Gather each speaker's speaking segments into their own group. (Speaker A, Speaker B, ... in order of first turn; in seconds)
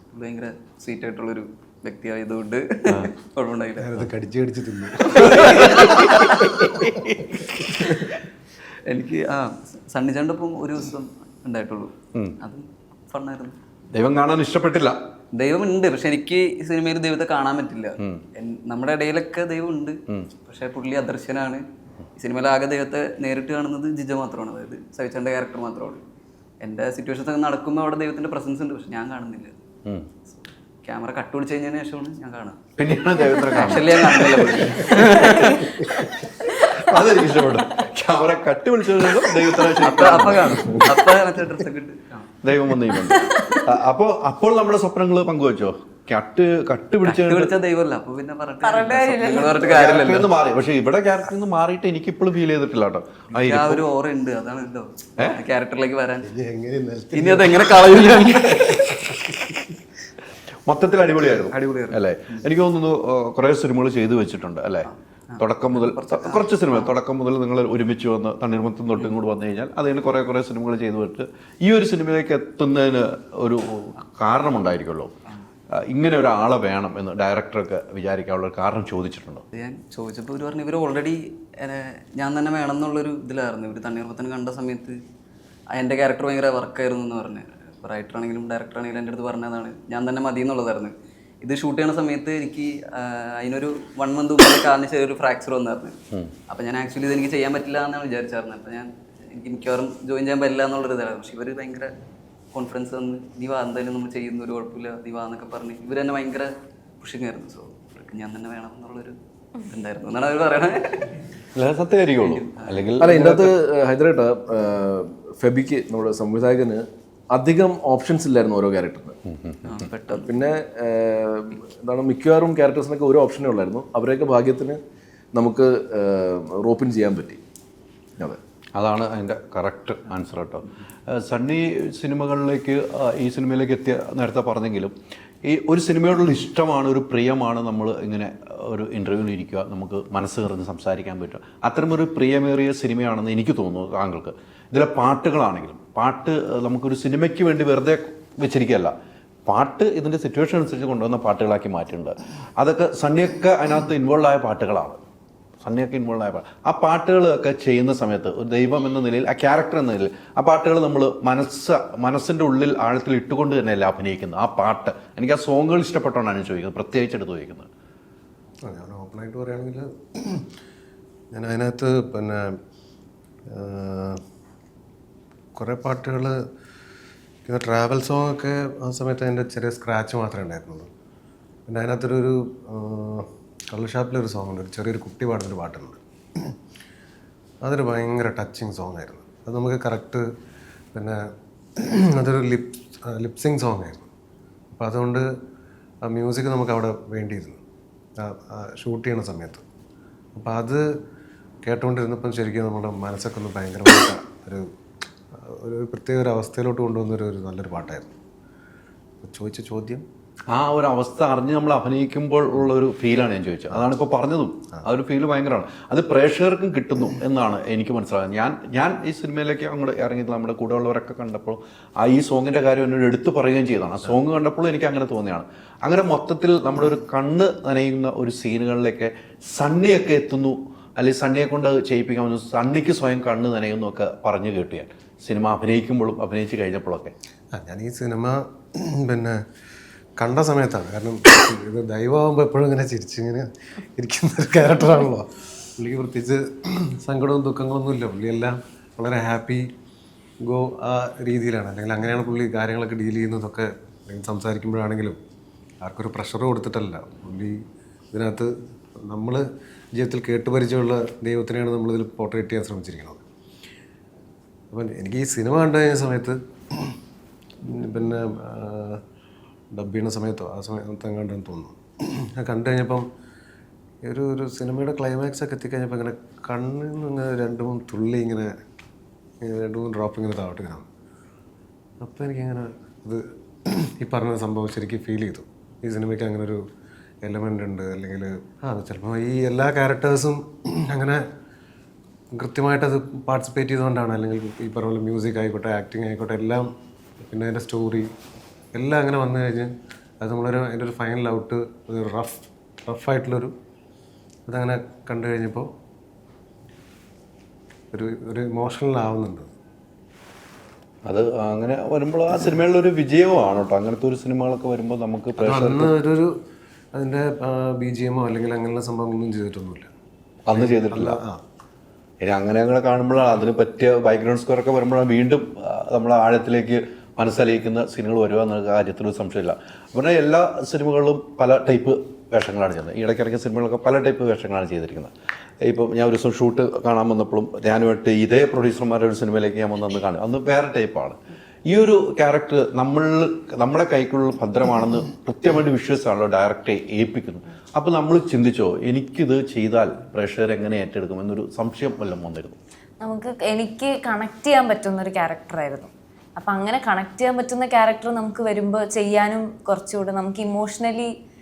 Speaker A: 0.1-4.0, 5.0-8.2, 8.9-13.6, 15.3-21.6, 22.2-26.1, 26.6-29.6, 30.3-32.6, 33.5-36.3, 39.6-42.9, 47.0-50.3, 53.3-56.3, 57.1-59.2, 61.5-62.4, 64.9-66.9, 79.5-85.0, 85.7-96.0, 96.5-101.9, 102.5-111.2, 112.2-112.9, 119.7-120.4
Speaker B: 3.8-6.0, 6.6-7.1, 56.2-58.3, 168.7-170.4, 171.3-172.4, 173.5-174.2, 175.6-176.4, 177.5-180.9, 181.7-186.5, 187.6-190.2, 190.9-191.2, 191.8-194.1, 194.8-195.3, 196.0-197.6, 198.2-199.6, 200.3-200.8, 201.6-204.7, 205.4-208.1, 209.2-210.0, 237.6-238.4, 239.0-239.4, 240.2-249.7, 250.5-255.2, 255.8-257.6, 258.1-258.5, 259.1-259.4, 259.9-263.2, 264.7-266.9, 267.7-269.0, 269.7-271.8, 272.4-273.1, 274.1-278.5, 279.4-280.9, 282.0-283.2, 284.0-286.6, 287.2-291.2, 292.3-296.7, 297.2-298.1, 298.8-303.5, 304.5-305.7, 307.9-309.5, 315.4-316.3, 316.9-319.9, 320.5-321.4
Speaker C: 13.9-15.0, 32.8-40.9, 42.4-47.5, 49.6-53.9, 60.7-75.1, 75.8-79.4, 111.5-113.5, 119.3-119.9, 128.8-134.9, 135.5-148.9, 149.5-155.0, 155.6-167.7, 210.5-237.1, 311.1-315.9, 320.5-321.2, 322.2-335.1, 335.6-352.6
Speaker D: 43.2-43.6, 48.6-49.6, 353.0-361.1
Speaker E: 113.0-119.2, 120.1-124.8, 125.3-127.4